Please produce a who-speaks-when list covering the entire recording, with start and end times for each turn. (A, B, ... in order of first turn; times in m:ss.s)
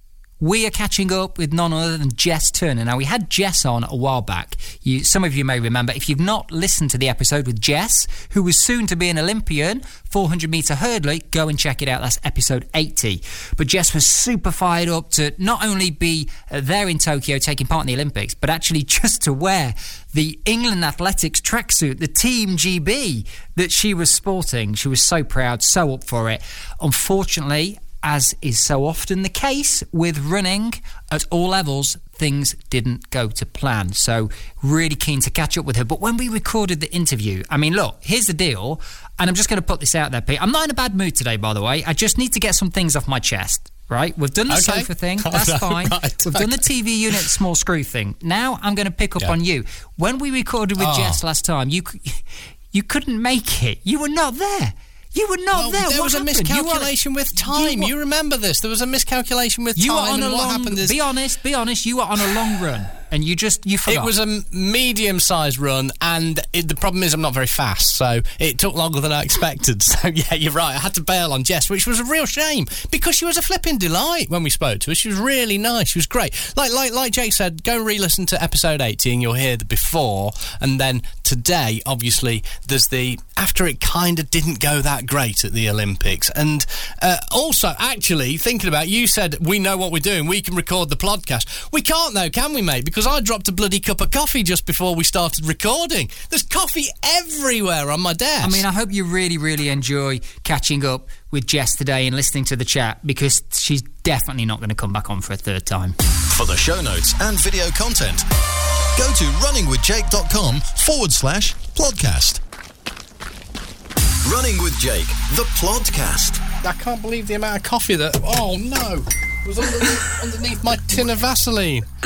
0:00.4-0:57.9 A
0:44.5-0:46.6 B
0:50.8-0:51.2 B
0:55.6-1:01.0 B
0:59.8-1:04.1 A
1:03.9-1:38.6 B
1:38.4-1:46.0 A
1:46.3-1:48.2 C
1:49.0-1:52.4 C
1:54.2-1:56.4 C
1:56.6-2:01.9 B